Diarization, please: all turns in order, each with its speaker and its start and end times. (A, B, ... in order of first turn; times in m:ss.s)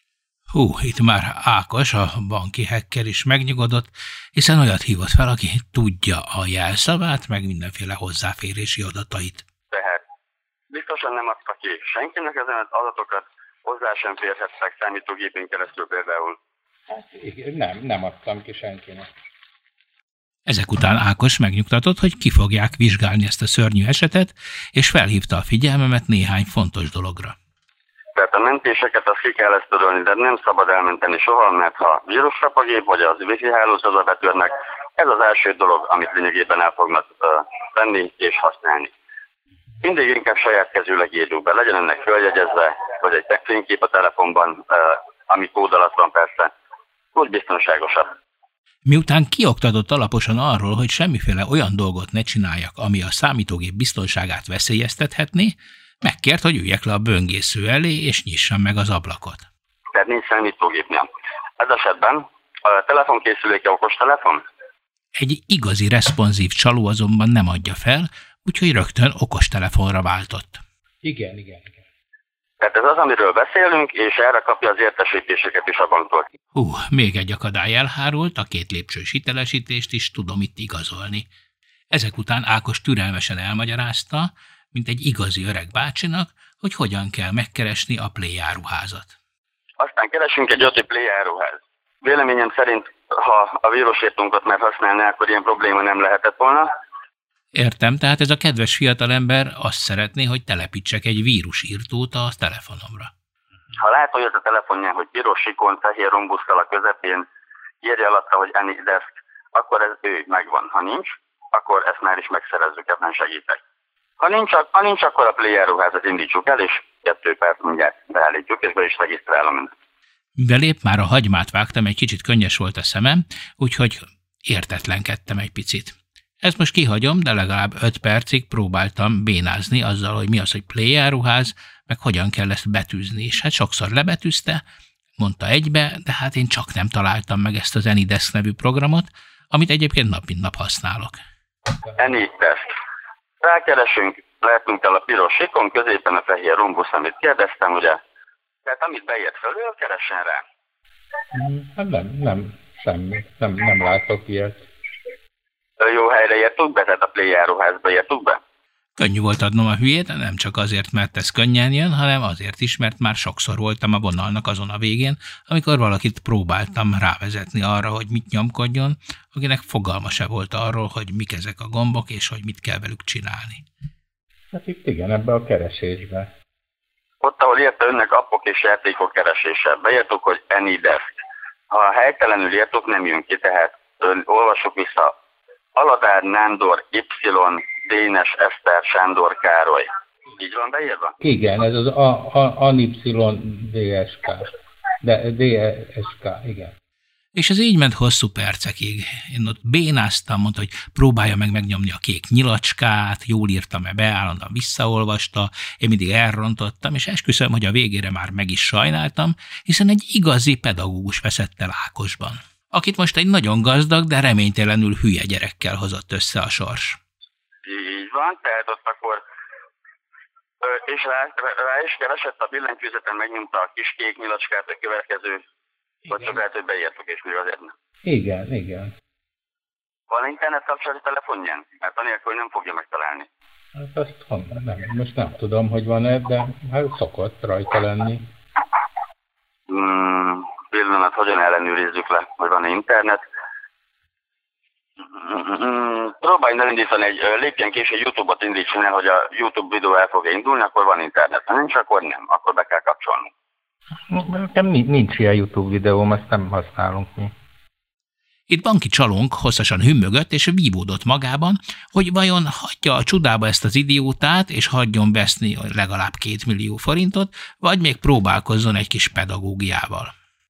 0:00.5-0:09.4 A
0:09.7-0:10.0 B
0:10.7-0:16.4 B
0:16.9-0:19.1 C
0:20.5-0:27.4 A
0:28.2-0:38.9 B
0:39.8-0:46.5 B
0:47.1-0:48.1 B
0:48.9-0:59.4 A
0:59.9-1:01.1 B
1:01.6-1:04.4 B
1:05.2-1:10.6 A
1:11.0-1:11.8 C
1:12.6-1:16.3 B
1:16.6-1:21.3 A
1:21.9-1:29.1 A
1:29.8-1:36.7 B
1:37.6-1:43.1 A
1:43.8-1:47.3 B
1:47.8-1:53.6 B
1:54.2-1:59.7 B
2:00.4-2:14.6 A
2:15.2-2:21.2 A
2:22.0-2:22.8 B
2:23.4-2:28.0 B
2:28.6-2:30.4 B
2:31.3-2:34.6 C
2:35.8-2:38.4 B
2:39.0-2:53.6 A
2:54.5-2:56.3 C
2:57.2-3:05.1 B
3:05.8-3:11.2 B
3:11.2-3:14.5 C
3:15.0-3:16.7 C
3:17.4-3:37.0 A
3:37.6-3:39.2 B
3:40.6-3:45.4 B
3:46.0-3:46.4 C
3:46.1-3:47.7 B
3:48.1-3:48.9 C
3:50.1-3:53.3 B
3:53.8-3:58.2 C
3:59.7-4:03.2 B
4:05.0-4:13.3 B
4:14.1-4:17.3 C
4:18.5-4:30.2 A